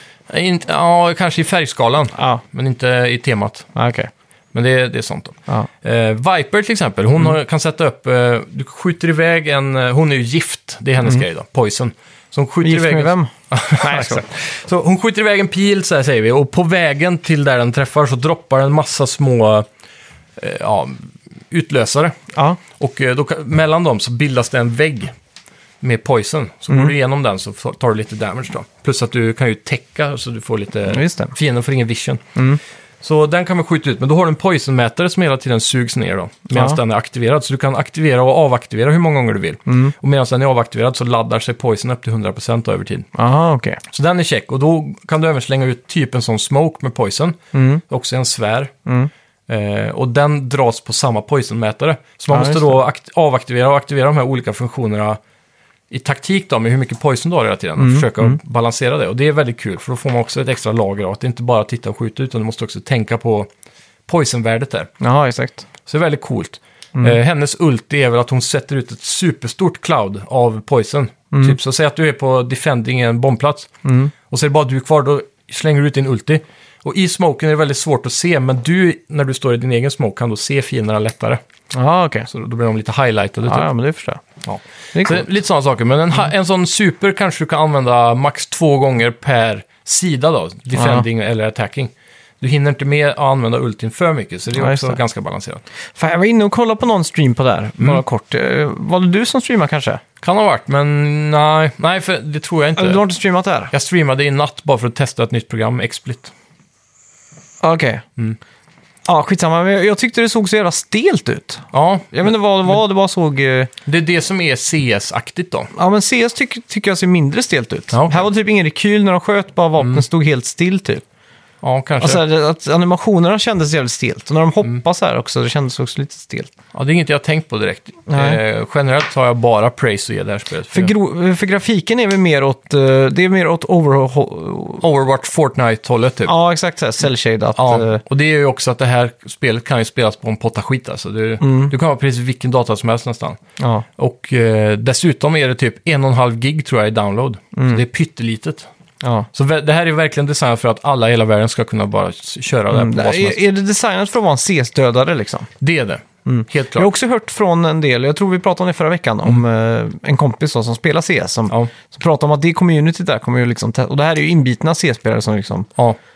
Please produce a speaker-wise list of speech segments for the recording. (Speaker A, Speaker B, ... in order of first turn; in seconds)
Speaker A: 0.3-3.7, 4.5-19.7, 20.4-22.2, 22.7-25.1, 25.8-32.3, 33.0-43.1, 43.9-48.7, 49.5-55.2, 55.9-63.5, 64.1-64.9, 65.8-73.7, 74.3-81.4, 82.3-83.7, 84.4-95.6, 100.2-103.0, 103.7-106.3, 111.7-112.3, 113.8-115.7, 117.9-118.3, 119.8-120.0, 121.6-122.2, 126.7-130.9, 134.8-136.3, 137.6-143.4, 144.0-148.7, 149.3-153.4, 155.6-156.9
Speaker B: 2.1-2.4, 3.7-4.1, 12.6-14.2, 22.3-22.6, 30.9-31.3, 36.5-36.8, 39.7-39.9, 43.1-43.8, 47.5-47.8, 52.3-52.7, 57.8-58.4, 65.0-65.7, 73.8-74.1, 81.7-82.3, 83.5-84.2, 84.9-85.3, 90.8-91.0, 94.5-95.0, 96.0-100.0, 102.8-103.7, 107.6-108.0, 109.0-113.7, 115.7-121.0, 122.0-126.5, 128.1-128.4, 130.7-134.8, 136.2-138.0, 141.4-141.7, 143.6-143.8, 147.5-147.8, 149.0-149.3, 152.7-155.5, 156.2-165.7